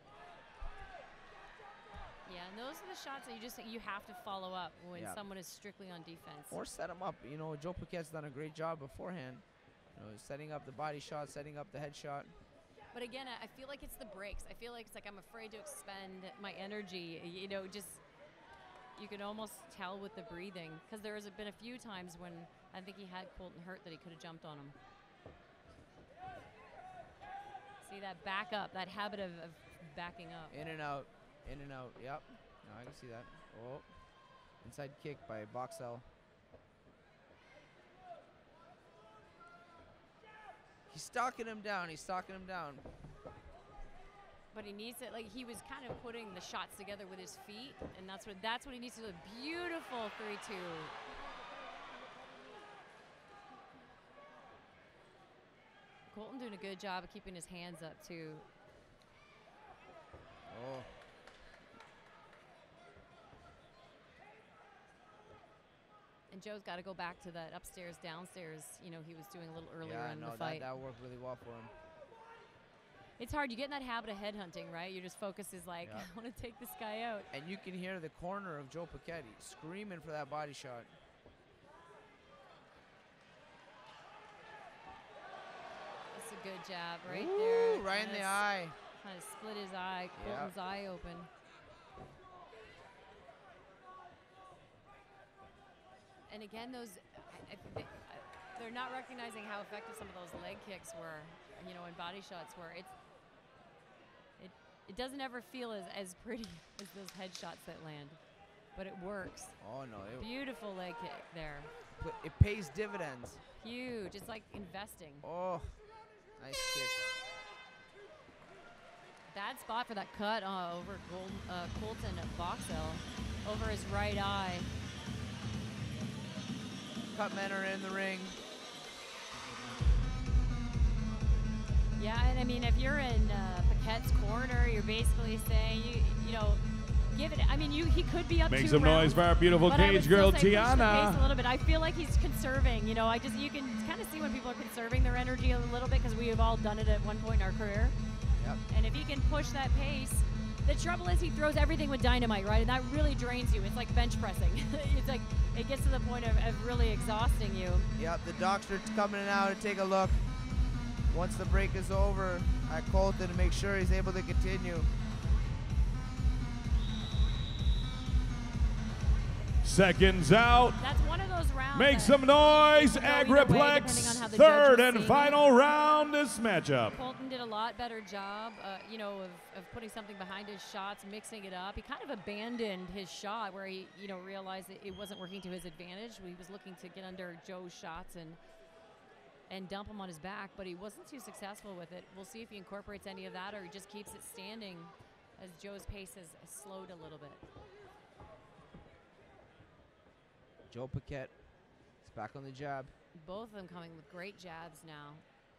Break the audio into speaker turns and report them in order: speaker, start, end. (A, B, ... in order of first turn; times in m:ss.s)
0:02.2-0:06.6 A
0:04.9-0:05.2 B
0:06.5-0:12.3 B
0:12.9-0:18.0 A
0:19.0-0:24.8 A
0:27.8-0:30.6 A
0:30.5-0:33.9 B
0:34.6-0:36.0 B
0:40.9-0:42.8 B
0:44.5-0:51.0 A
0:56.1-0:58.5 A
1:00.5-1:00.9 B
1:06.3-1:10.7 A
1:09.8-1:11.7 B
1:13.2-1:17.3 A
1:15.8-1:16.1 B
1:17.3-1:20.9 B
1:26.1-1:31.3 A
1:27.0-1:28.8 B
1:30.2-1:30.5 B
1:36.3-1:42.9 A
1:44.4-1:48.2 A
1:48.8-1:49.6 A
1:49.6-1:50.3 B
1:50.2-1:51.7 A
1:52.0-1:53.4 B
1:53.6-1:55.2 A
1:55.2-1:55.8 B
1:56.4-1:57.1 B
1:59.3-2:04.7 A
2:07.1-2:08.4 B
2:12.0-2:28.0 A
2:18.5-2:21.2 C
2:28.7-2:37.9 A
2:38.0-2:40.2 B
2:41.1-2:44.9 B
2:49.6-2:50.8 C
2:50.8-2:55.4 A
2:51.7-2:57.0 C
2:56.9-3:08.4 A
3:09.5-3:17.4 A
3:20.7-3:21.3 B
3:22.0-3:22.9 B
3:23.2-3:25.2 A